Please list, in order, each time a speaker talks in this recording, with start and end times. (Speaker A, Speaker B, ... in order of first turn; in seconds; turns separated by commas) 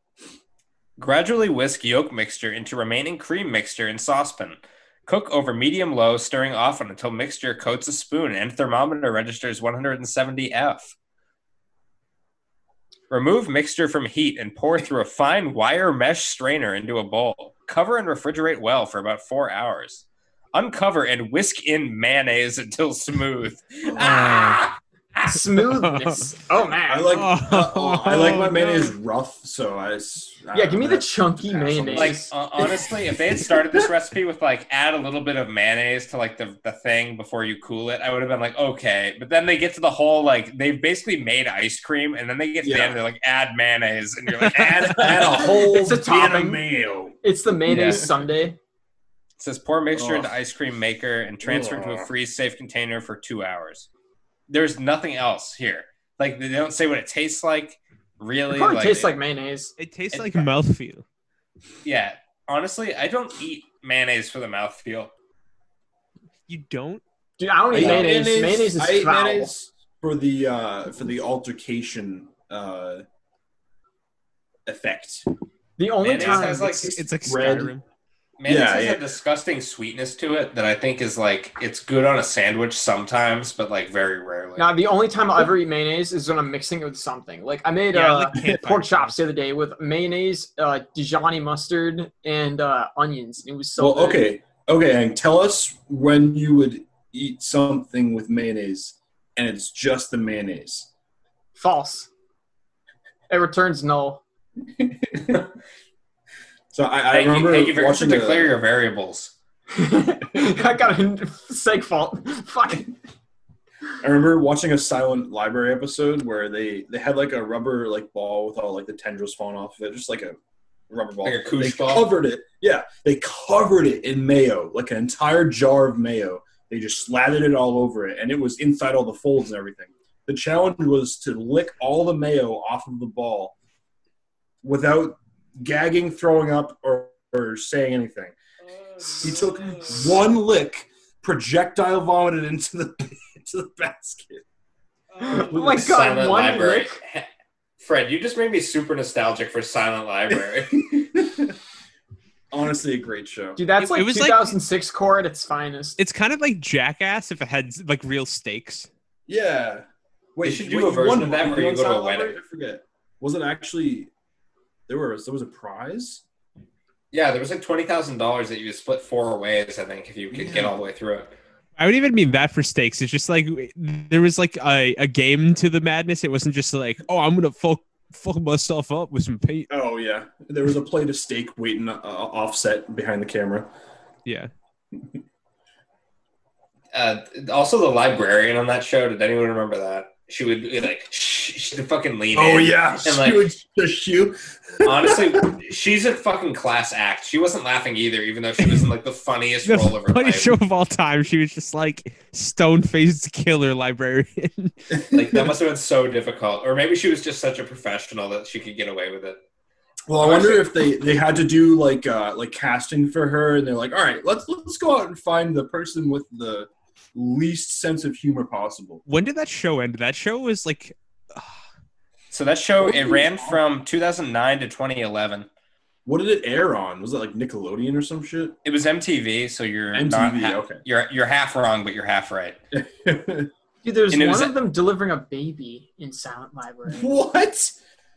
Speaker A: 1.0-10.9, Speaker A: 13.1-25.3, Speaker B: 23.8-24.3, Speaker C: 24.0-24.6, Speaker D: 25.2-27.2, Speaker C: 25.7-26.2, Speaker B: 26.9-33.8, Speaker C: 27.1-28.9, Speaker D: 30.5-32.3, Speaker A: 31.9-45.5, Speaker B: 42.6-43.0, Speaker B: 44.5-47.1, Speaker D: 45.6-46.6, Speaker D: 47.2-48.6, Speaker A: 47.7-48.0, Speaker B: 47.7-48.0, Speaker A: 49.4-53.9, Speaker B: 49.9-50.3, Speaker B: 51.4-52.1, Speaker A: 54.5-59.1, Speaker D: 58.5-59.7, Speaker C: 59.8-61.0, Speaker A: 60.1-60.5, Speaker A: 61.8-65.1, Speaker C: 66.5-67.0, Speaker D: 67.4-69.5, Speaker B: 67.7-73.0, Speaker B: 74.7-75.2, Speaker D: 75.8-76.9, Speaker A: 76.0-77.0, Speaker B: 76.2-77.7, Speaker C: 76.8-77.8, Speaker A: 78.4-84.7, Speaker B: 78.5-79.0, Speaker D: 84.6-94.3, Speaker C: 87.9-89.1, Speaker B: 88.3-88.6, Speaker B: 93.8-100.9, Speaker D: 101.5-102.1, Speaker D: 103.3-104.2, Speaker B: 104.7-105.4, Speaker B: 106.7-108.6, Speaker A: 107.1-109.3, Speaker D: 109.7-112.9, Speaker B: 114.0-120.4, Speaker B: 120.9-133.6, Speaker A: 121.2-122.1, Speaker B: 134.6-138.4, Speaker A: 139.1-139.9, Speaker B: 139.1-144.4, Speaker D: 145.2-147.0, Speaker B: 145.2-145.9, Speaker A: 145.3-147.3, Speaker A: 147.8-151.0, Speaker B: 150.7-151.6, Speaker B: 152.5-153.6, Speaker D: 153.6-156.0, Speaker C: 153.8-154.5, Speaker C: 156.0-158.9, Speaker B: 159.3-164.1, Speaker A: 160.4-162.4, Speaker B: 164.9-166.2, Speaker A: 167.1-171.3, Speaker B: 170.3-170.8, Speaker C: 171.8-179.7, Speaker B: 179.7-183.7, Speaker C: 184.2-184.5, Speaker A: 186.9-193.5, Speaker B: 192.3-195.5, Speaker A: 194.8-200.6, Speaker C: 199.7-204.8, Speaker B: 204.9-205.6, Speaker A: 205.1-209.4, Speaker B: 210.1-219.0, Speaker A: 210.2-210.7, Speaker C: 219.1-221.5, Speaker A: 222.3-225.5, Speaker B: 222.8-223.6, Speaker B: 226.1-228.6, Speaker A: 228.6-232.6, Speaker B: 229.9-230.8, Speaker B: 232.7-233.5, Speaker D: 233.8-237.1, Speaker A: 234.1-234.5, Speaker B: 236.9-237.8